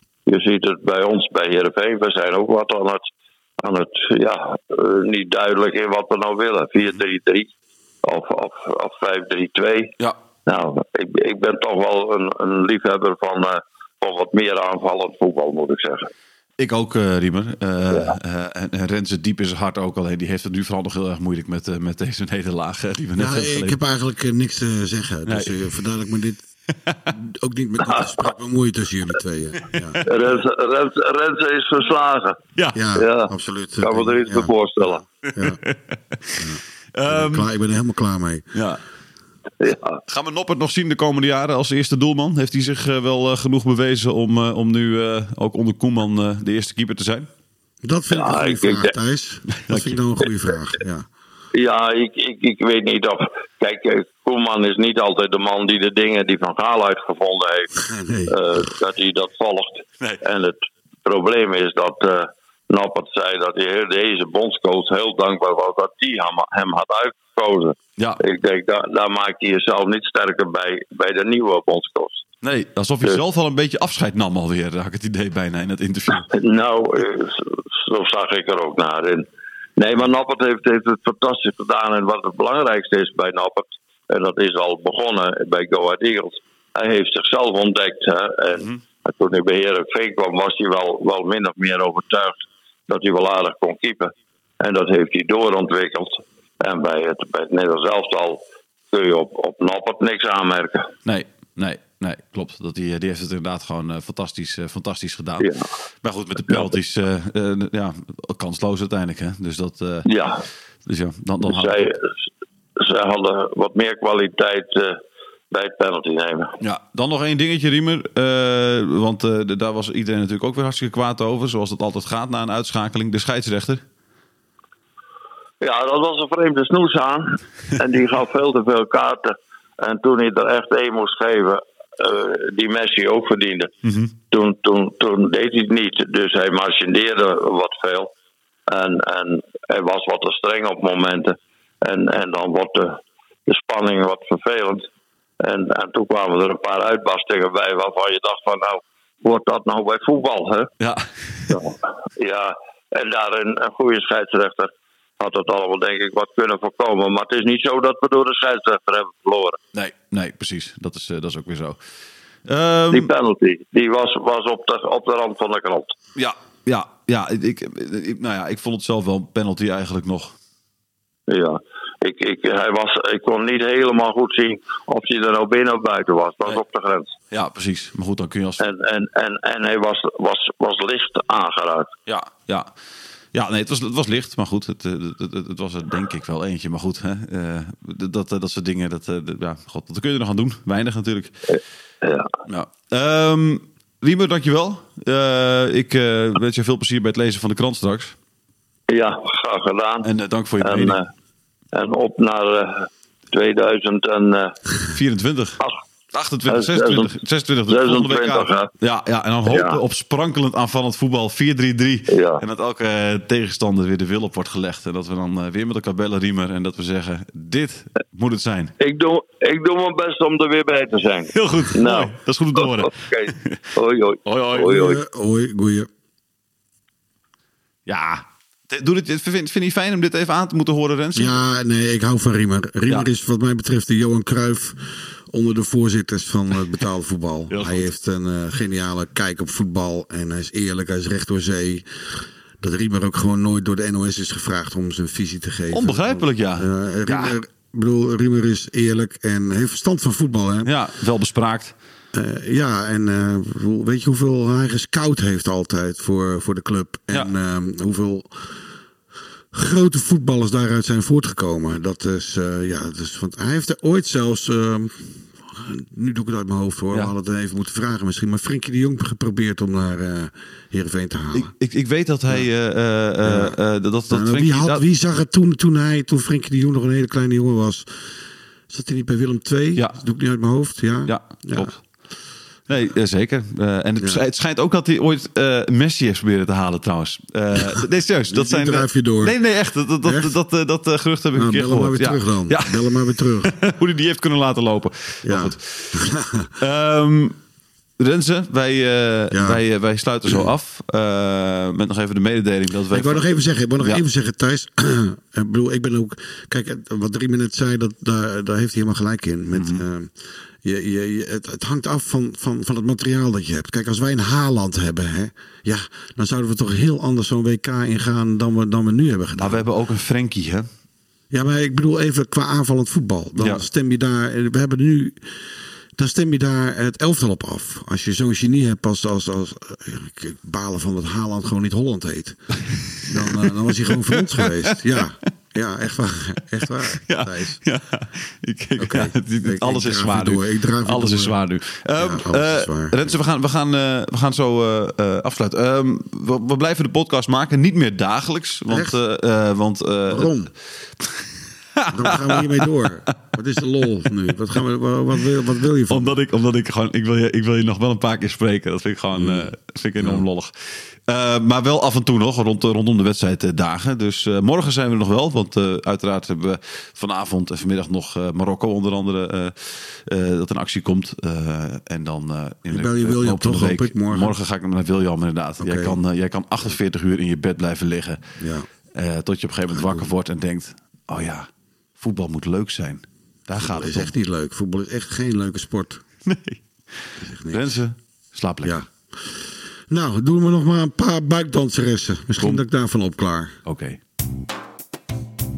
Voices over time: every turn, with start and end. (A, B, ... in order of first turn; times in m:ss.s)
0:00.3-0:03.0 A
0:03.6-0:07.5 A
0:08.0-0:09.9 A
0:10.5-0:16.1 A
0:16.6-0:23.8 B
0:23.2-0:26.4 C
0:25.3-0:25.5 B
0:27.1-0:30.0 C
0:30.0-0:32.4 A
0:32.7-0:35.6 C
0:33.0-0:35.0 A
0:35.4-0:37.5 B
0:36.4-0:38.5 C
0:38.6-0:38.8 B
0:39.6-0:40.0 A
0:40.1-0:47.3 B
0:47.8-0:51.1 C
0:48.1-0:48.9 A
0:49.6-0:50.0 B
0:51.5-0:57.7 A
0:57.8-0:58.4 C
0:58.3-1:12.2 A
1:12.4-1:16.3 B
1:16.1-1:19.3 A
1:19.8-1:32.4 A
1:32.9-1:38.4 A
1:38.9-1:40.9 A
1:41.1-1:45.5 B
1:46.0-1:50.1 B
1:50.1-1:50.4 A
1:50.9-1:51.8 B
1:51.4-1:52.2 A
1:52.8-1:55.0 A
1:55.5-1:56.5 A
1:56.6-2:03.8 B
2:05.6-2:13.7 A
2:13.8-2:14.1 B
2:14.3-2:18.1 A
2:18.7-2:24.9 A
2:25.4-2:30.7 A
2:30.8-2:31.6 B
2:31.5-2:39.6 A
2:39.7-2:41.8 B
2:42.5-2:43.1 B
2:42.9-2:46.0 A
2:46.2-2:50.3 B
2:51.3-2:57.1 A
2:57.3-2:58.6 B
2:58.6-3:01.9 A
3:02.1-3:02.7 B
3:03.3-3:11.3 B
3:11.5-3:12.3 A
3:12.5-3:18.2 B
3:18.9-3:20.1 A
3:20.0-3:21.0 B
3:20.6-3:21.1 A
3:21.7-3:24.6 A
3:24.9-3:25.6 B
3:26.1-3:38.7 B
3:26.5-3:27.1 A
3:27.7-3:28.7 A
3:29.5-3:29.8 A
3:32.1-3:32.4 A
3:38.8-3:45.0 A
3:41.4-3:43.5 B
3:44.3-3:44.8 B
3:44.6-3:45.9 C
3:47.9-3:51.4 B
3:51.2-4:10.7 C
3:57.5-3:57.8 B
4:05.7-4:07.4 B
4:10.6-4:11.7 B
4:12.1-4:18.6 C
4:19.5-4:31.5 C
4:31.3-4:34.8 B
4:33.2-4:33.6 C
4:34.1-4:38.0 C
4:38.7-4:41.7 C
4:41.1-4:41.8 B
4:42.7-4:56.0 B
4:47.6-4:49.4 C
4:50.0-4:50.3 C
4:51.3-4:53.6 C
4:55.2-4:56.5 C
4:56.6-4:57.4 B
4:58.0-5:03.2 B
4:59.3-4:59.6 C
5:02.9-5:19.6 C
5:09.5-5:09.8 B
5:19.4-5:20.7 B
5:21.3-5:25.4 C
5:23.4-5:23.6 B
5:26.0-5:32.4 C
5:33.0-5:33.5 B
5:33.1-5:37.6 C
5:34.1-5:34.5 B
5:36.9-5:50.3 B
5:38.8-5:41.3 C
5:41.9-5:43.1 C
5:48.7-5:49.0 C
5:50.1-5:50.5 C
5:51.8-5:52.7 B
5:51.9-5:56.2 C
5:55.9-6:00.5 B
5:59.2-6:00.2 C
6:01.1-6:18.2 B
6:12.7-6:14.3 C
6:15.6-6:16.0 C
6:18.4-6:18.7 C
6:18.9-6:21.5 B
6:19.7-6:20.1 C
6:22.0-6:24.1 B
6:23.6-6:26.0 C
6:26.3-6:26.6 B
6:27.2-6:27.8 C
6:27.5-6:28.8 B
6:28.6-6:29.4 C
6:29.9-6:33.6 C
6:33.7-6:34.0 B